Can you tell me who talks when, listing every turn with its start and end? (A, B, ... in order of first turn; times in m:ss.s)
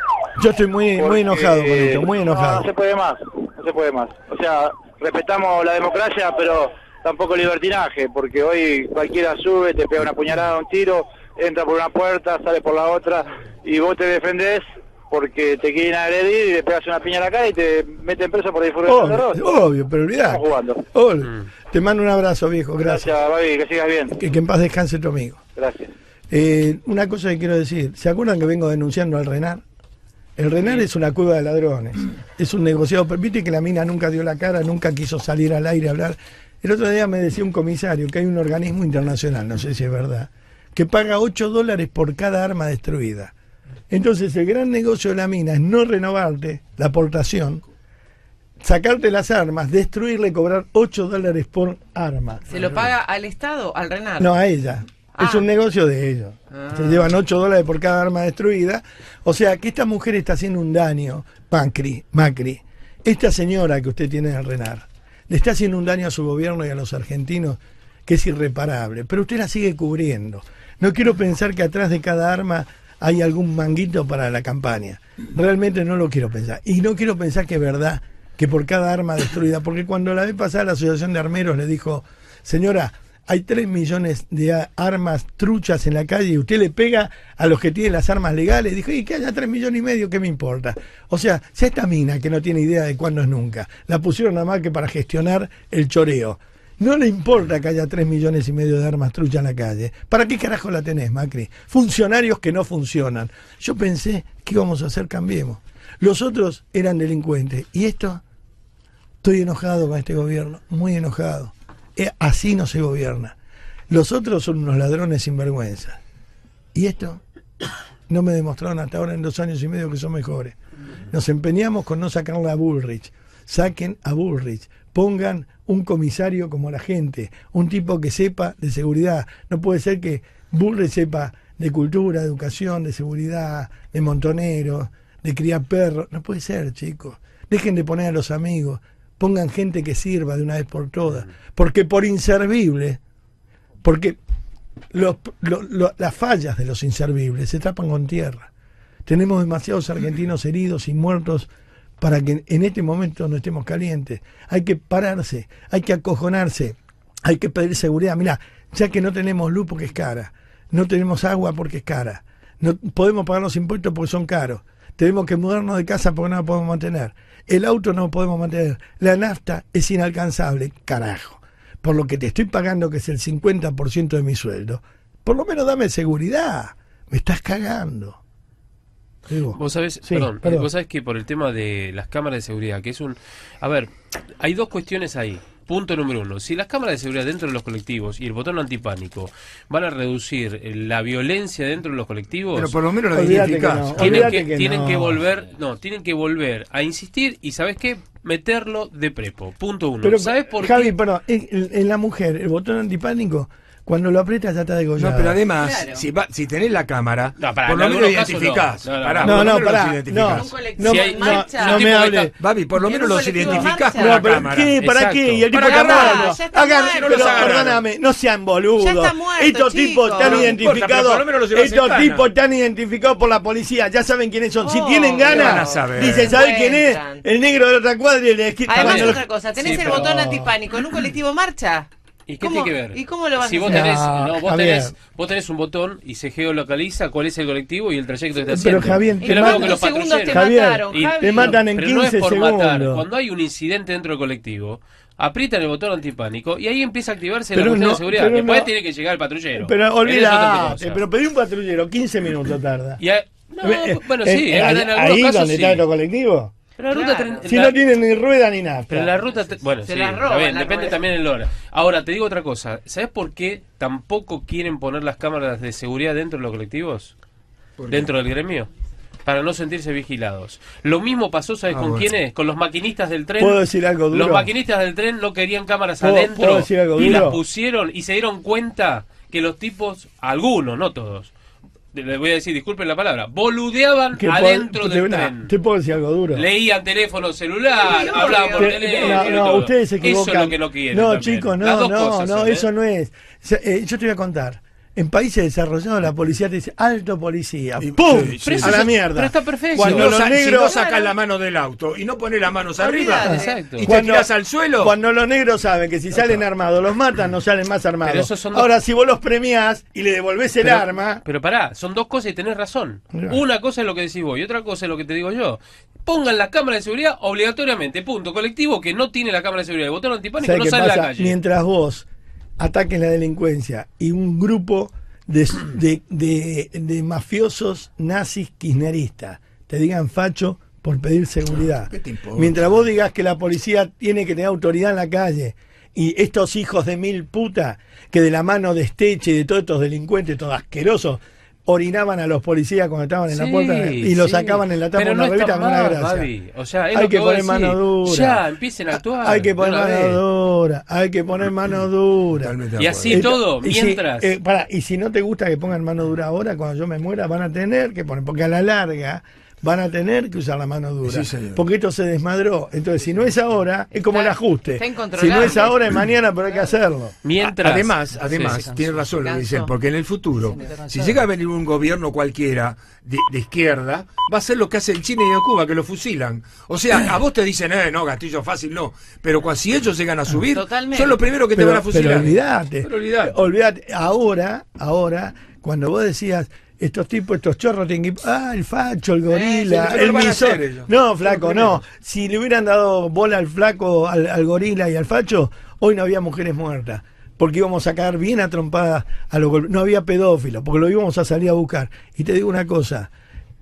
0:00.3-0:02.6 A
0:01.0-0:19.4 B
0:18.8-0:23.1 A
0:20.2-0:20.8 B
0:22.8-0:24.1 B
0:24.1-0:25.4 A
0:25.6-0:25.9 B
0:26.3-0:29.6 A
0:30.4-0:43.3 A
0:43.9-0:47.6 A
0:48.6-0:52.5 A
0:52.5-0:54.3 C
0:54.2-1:48.2 A
0:55.2-0:55.4 C
0:56.5-0:57.0 C
1:49.2-1:53.4 A
1:53.9-1:56.0 A
1:56.7-1:57.2 A
1:58.1-2:00.6 A
2:01.1-2:23.0 A
2:23.8-2:24.2 A
2:24.9-2:28.5 A
2:29.0-2:31.5 A
2:32.0-2:58.2 A
2:59.3-3:00.7 A
2:59.5-3:12.8 D
3:12.5-3:14.3 E
3:13.1-3:15.2 A
3:14.0-3:20.9 D
3:20.0-3:25.4 A
3:25.0-3:30.5 E
3:25.5-3:26.1 C
3:27.4-3:29.6 D
3:29.2-3:32.3 A
3:30.3-3:31.9 C
3:30.8-3:32.3 D
3:32.3-3:34.8 E
3:32.7-3:34.3 C
3:33.5-3:50.5 A
3:34.8-3:35.5 D
3:35.5-3:36.0 E
3:35.6-3:37.7 C
3:36.9-3:37.8 E
3:38.8-3:40.6 C
3:40.2-3:42.3 E
3:44.6-3:47.2 C
3:45.2-3:46.4 E
3:48.7-3:51.9 C
3:48.8-3:50.4 D
3:52.3-4:11.0 D
3:52.4-3:54.0 C
3:53.7-3:54.9 A
3:58.5-4:03.0 A
3:59.2-4:01.6 C
4:07.5-4:08.7 A
4:09.6-4:13.0 A
4:13.0-4:15.8 D
4:13.6-4:16.5 A
4:16.8-4:17.8 D
4:16.8-4:17.5 C
4:17.4-4:19.2 A
4:18.9-4:27.1 D
4:19.8-4:21.0 C
4:27.8-4:28.1 E
4:27.9-4:28.7 D
4:29.2-4:41.3 D
4:31.7-4:32.1 E
4:33.4-4:34.5 A
4:36.0-4:37.4 A
4:41.9-4:45.5 D
4:44.2-4:46.4 A
4:46.3-4:52.7 D
4:47.7-4:49.4 C
4:48.5-5:00.8 A
4:57.8-4:58.9 E
4:58.2-5:00.2 D
4:59.7-5:04.9 E
5:00.6-5:01.1 C
5:02.8-5:03.7 C
5:03.2-5:11.2 A
5:03.3-5:03.9 D
5:08.0-5:08.7 D
5:10.6-5:21.4 D
5:13.1-5:13.4 A
5:20.4-5:22.1 A
5:22.6-5:46.3 A
5:31.5-5:32.9 E
5:43.3-5:50.2 D
5:46.9-5:48.4 A
5:48.9-6:07.2 A
5:52.4-5:53.3 E
5:52.8-5:54.3 D
6:01.0-6:01.6 E
6:04.1-6:05.9 C
6:07.2-6:08.6 D
6:07.4-6:23.4 E
6:09.1-6:09.7 C
6:20.5-6:21.4 C
6:21.5-6:43.1 A
6:29.2-6:29.7 C
6:29.6-6:31.8 E